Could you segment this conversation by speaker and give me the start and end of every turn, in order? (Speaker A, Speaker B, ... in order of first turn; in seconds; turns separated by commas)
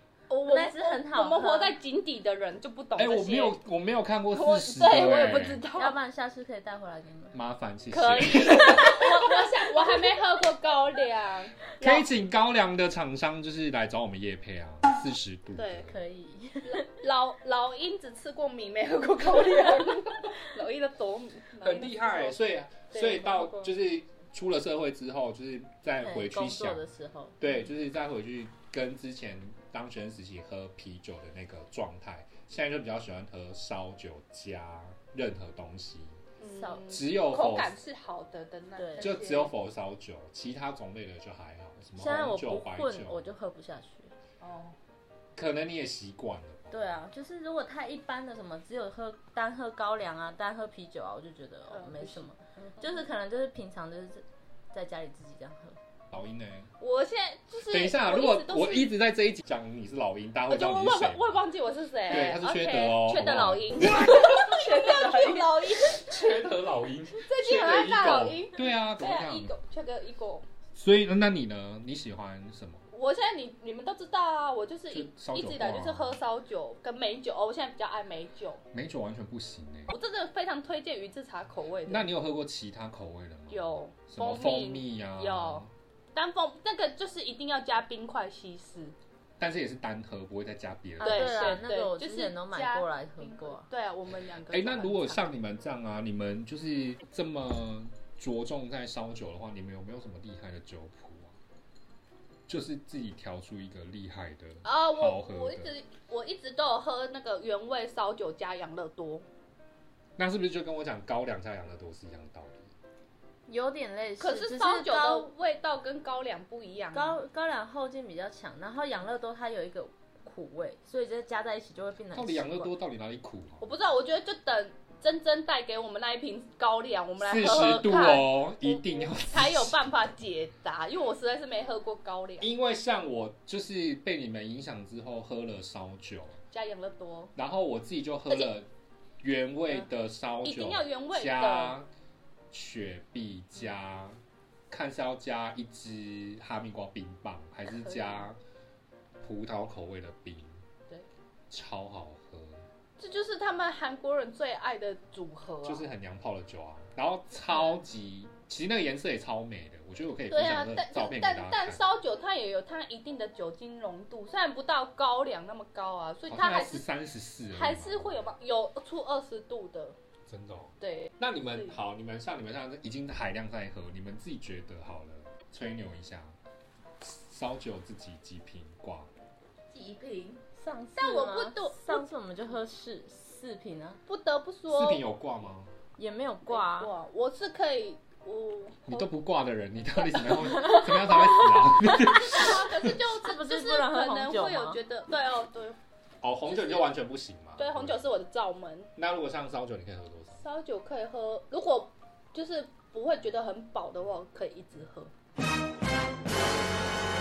Speaker A: 0.3-3.6, Speaker B: 0.4-1.7, Speaker C: 3.0-5.6, Speaker A: 4.3-6.0, Speaker B: 5.7-7.4, Speaker C: 7.3-9.1, Speaker A: 7.9-11.6, Speaker C: 11.8-16.0, Speaker A: 15.5-15.9, Speaker B: 15.9-16.8, Speaker A: 16.7-22.4, Speaker C: 21.6-26.8, Speaker A: 22.9-23.7, Speaker B: 26.0-27.4, Speaker C: 27.4-36.2, Speaker A: 36.4-39.5, Speaker B: 36.5-36.9, Speaker C: 36.9-37.7, Speaker B: 38.8-39.1, Speaker C: 39.0-43.3, Speaker B: 42.0-44.1, Speaker A: 44.4-44.8, Speaker C: 45.4-47.0, Speaker B: 46.7-55.8, Speaker A: 51.7-52.9, Speaker C: 56.1-56.7, Speaker A: 56.8-58.9, Speaker C: 57.7-61.4, Speaker A: 60.5-66.0, Speaker C: 62.0-64.5, Speaker B: 64.3-65.1, Speaker C: 65.8-69.5, Speaker A: 67.2-70.4, Speaker C: 70.7-72.8, Speaker A: 72.9-78.6, Speaker C: 74.9-76.2, Speaker C: 78.7-79.9, Speaker A: 79.9-82.1, Speaker C: 81.8-85.7, Speaker A: 83.5-88.9, Speaker C: 89.4-91.6, Speaker B: 91.0-93.7, Speaker A: 91.0-95.3, Speaker C: 94.5-101.3, Speaker C: 102.5-105.7, Speaker A: 104.6-109.2, Speaker C: 110.2-112.7, Speaker B: 113.5-115.3, Speaker A: 114.2-117.2, Speaker B: 116.9-122.7, Speaker C: 122.1-123.6, Speaker A: 123.6-132.5, Speaker C: 127.2-129.8, Speaker C: 132.4-136.4, Speaker A: 136.5-137.3, Speaker C: 137.3-138.7, Speaker C: 139.2-141.9, Speaker A: 140.4-141.8, Speaker C: 142.5-144.2, Speaker C: 144.7-148.4, Speaker A: 147.7-148.3, Speaker C: 149.2-150.6, Speaker C: 151.5-152.7, Speaker A: 153.0-155.9, Speaker C: 155.6-161.8, Speaker A: 157.5-157.8, Speaker A: 160.3-166.8, Speaker C: 166.3-168.3, Speaker A: 167.5-169.9, Speaker C: 170.3-176.4, Speaker A: 170.8-171.8, Speaker C: 177.0-179.1, Speaker A: 179.7-180.4, Speaker B: 180.5-184.0, Speaker A: 180.9-182.0, Speaker A: 184.1-185.0, Speaker C: 184.7-185.7, Speaker B: 186.0-186.9, Speaker A: 186.5-189.1, Speaker C: 188.9-192.9, Speaker A: 191.8-195.8, Speaker B: 193.2-194.8, Speaker C: 196.2-198.0, Speaker A: 196.4-196.9, Speaker A: 197.6-198.9, Speaker C: 198.9-200.4, Speaker A: 200.4-205.1